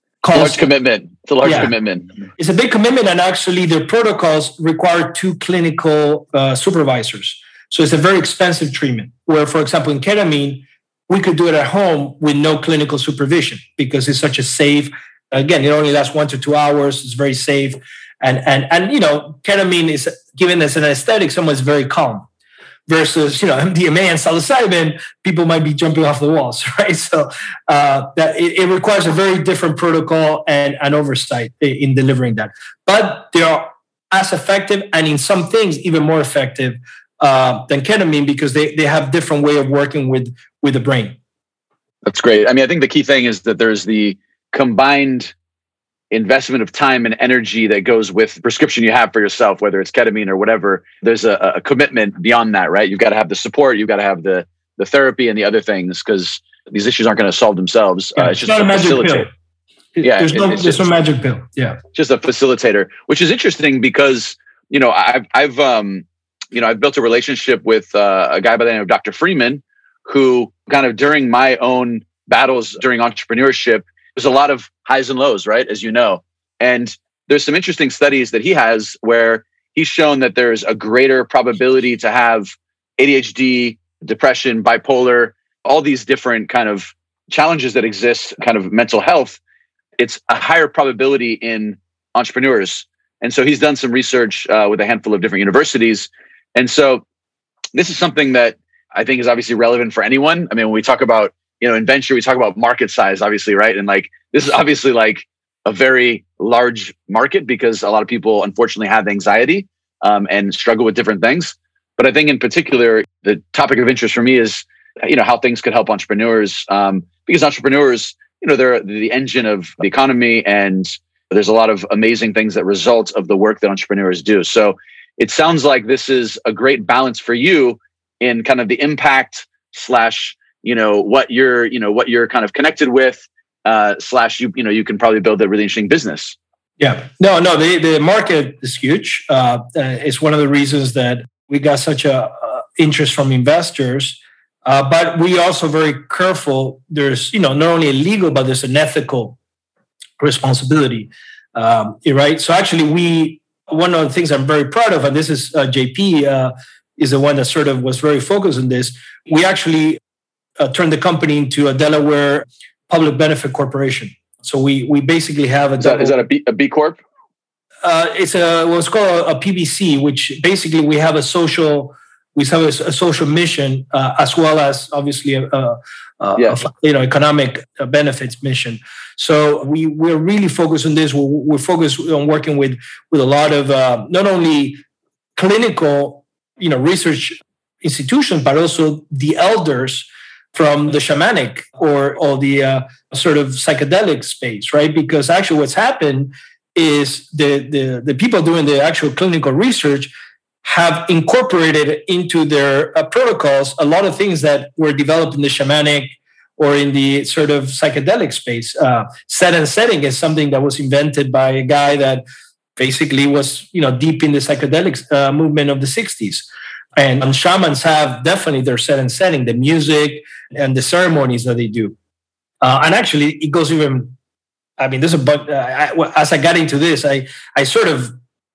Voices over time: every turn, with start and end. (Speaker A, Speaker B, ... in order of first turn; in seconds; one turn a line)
Speaker A: 0.2-0.6
Speaker B: 0.3-2.1
Speaker A: 1.4-1.7
Speaker A: 2.4-22.2
Speaker A: 22.9-41.2
Speaker B: 42.0-45.3
Speaker B: 46.1-59.3
Speaker A: 58.2-59.3
Speaker A: 60.0-61.8
Speaker B: 60.0-60.8
Speaker B: 61.9-89.4
Speaker B: 90.0-97.0
Speaker B: 97.7-136.3
Speaker A: 136.8-149.4
Speaker A: 150.2-160.0
Speaker A: 160.6-166.2
Speaker B: 165.8-167.0
Speaker A: 167.8-184.8
Speaker A: 185.3-200.1
Speaker A: 200.6-212.2
Speaker A: 212.8-221.9
Speaker A: 222.6-224.1
Speaker A: 224.8-228.1